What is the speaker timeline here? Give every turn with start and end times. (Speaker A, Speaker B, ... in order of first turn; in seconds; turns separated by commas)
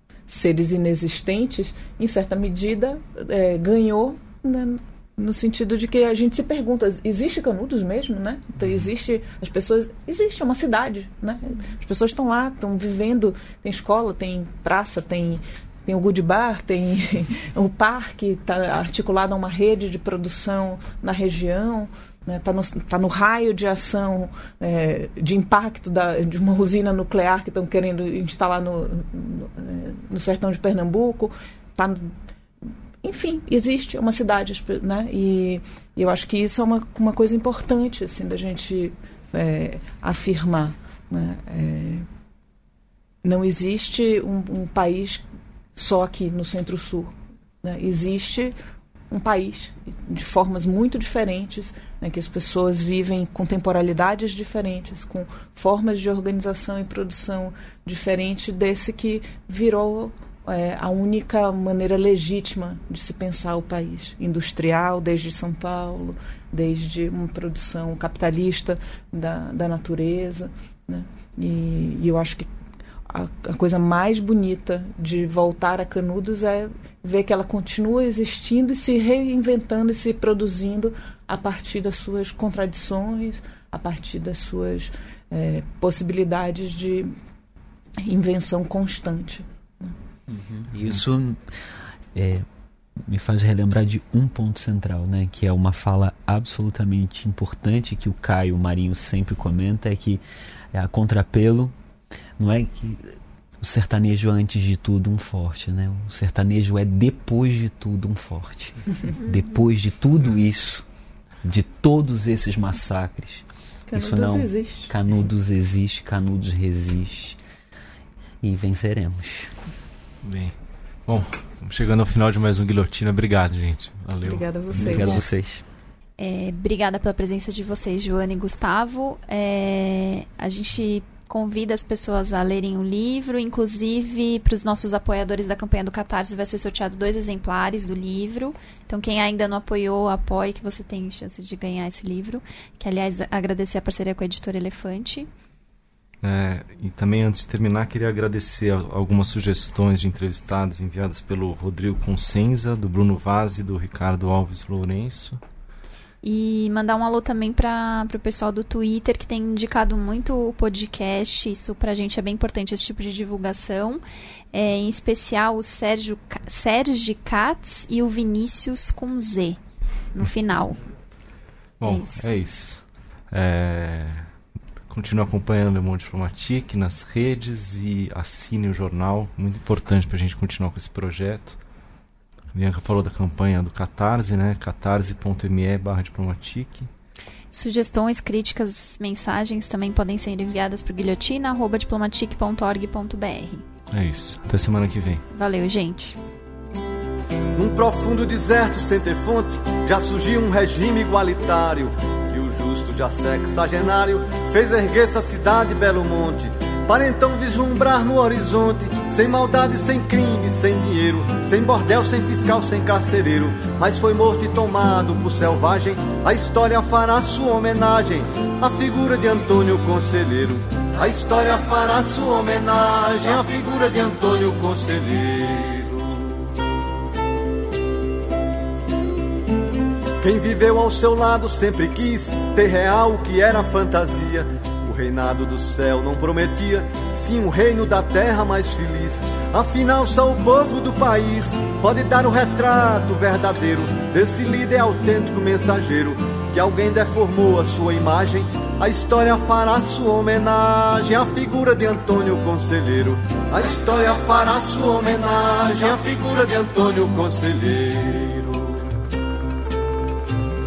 Speaker A: 0.3-32.1, Speaker A: 33.0-42.1, Speaker A: 43.2-45.2, Speaker A: 45.8-48.5, Speaker A: 49.1-72.5, Speaker A: 73.1-87.1, Speaker A: 88.0-89.9, Speaker B: 90.3-91.4, Speaker B: 92.2-92.5, Speaker B: 93.1-100.2, Speaker B: 100.7-101.7, Speaker B: 102.4-110.8, Speaker C: 109.2-109.6, Speaker B: 111.4-117.4, Speaker A: 113.9-114.9, Speaker B: 118.4-119.5, Speaker D: 120.2-125.2, Speaker A: 124.2-125.2, Speaker B: 124.7-125.6, Speaker C: 126.2-145.3, Speaker D: 146.2-155.4, Speaker C: 156.2-164.0, Speaker C: 164.5-169.6, Speaker C: 170.1-170.8, Speaker D: 171.8-174.3, Speaker C: 171.8-172.3, Speaker D: 174.9-181.6, Speaker D: 182.5-186.9, Speaker C: 187.5-193.7, Speaker D: 193.9-195.2, Speaker C: 195.3-196.2, Speaker E: 197.6-226.4, Speaker E: 230.2-258.9